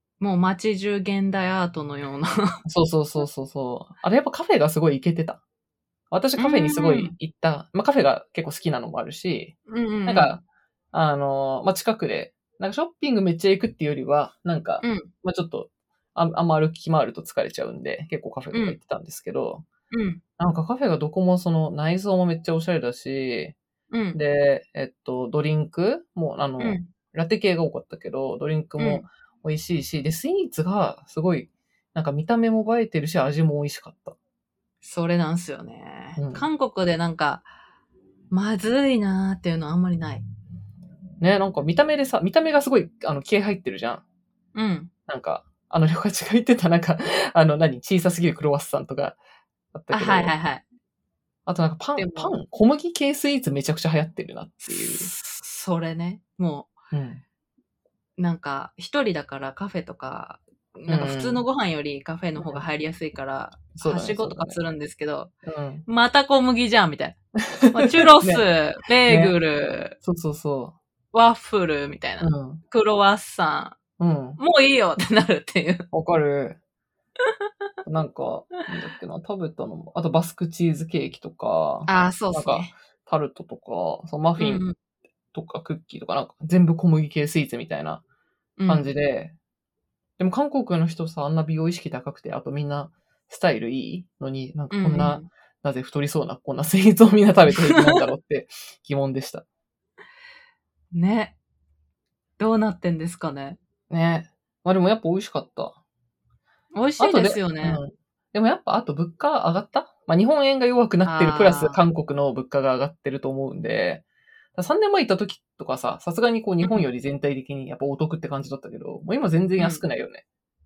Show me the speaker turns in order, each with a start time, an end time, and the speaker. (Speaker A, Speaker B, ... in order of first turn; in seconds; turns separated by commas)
Speaker A: 0.2-2.6, Speaker B: 2.7-5.4, Speaker B: 6.1-10.4, Speaker A: 6.4-7.2, Speaker A: 9.7-10.4, Speaker B: 10.9-19.7, Speaker A: 14.8-15.1, Speaker A: 18.5-18.8, Speaker A: 19.9-20.2, Speaker B: 20.4-23.6, Speaker A: 23.9-24.2, Speaker B: 24.1-34.2, Speaker A: 26.6-26.9, Speaker A: 28.8-29.1, Speaker A: 34.8-37.5, Speaker B: 36.2-36.5, Speaker A: 38.3-40.3, Speaker B: 41.2-44.0, Speaker A: 44.5-44.9, Speaker B: 45.1-49.2, Speaker B: 49.7-50.3, Speaker A: 49.9-50.6, Speaker B: 51.5-55.1, Speaker A: 52.0-52.3, Speaker A: 54.7-56.8, Speaker B: 56.9-57.2, Speaker A: 58.2-65.3, Speaker B: 60.9-61.4, Speaker B: 62.4-62.6, Speaker B: 63.8-64.6, Speaker B: 65.5-65.8, Speaker A: 65.9-67.2, Speaker B: 67.6-68.4, Speaker A: 67.7-70.0, Speaker B: 69.1-69.3, Speaker B: 70.0-70.8, Speaker A: 71.1-73.8, Speaker B: 72.2-72.6, Speaker B: 74.0-74.4, Speaker A: 74.4-75.9, Speaker B: 75.9-76.6, Speaker B: 77.8-84.7, Speaker A: 81.9-82.7, Speaker A: 84.4-84.8, Speaker B: 85.3-88.0, Speaker A: 88.6-88.9, Speaker B: 88.7-89.3, Speaker B: 90.2-99.5, Speaker A: 94.7-95.3, Speaker A: 100.9-101.4, Speaker A: 102.4-103.6, Speaker B: 103.9-105.8, Speaker A: 106.8-107.8, Speaker B: 107.0-114.0, Speaker A: 111.0-111.8, Speaker B: 114.5-120.2, Speaker A: 119.6-119.8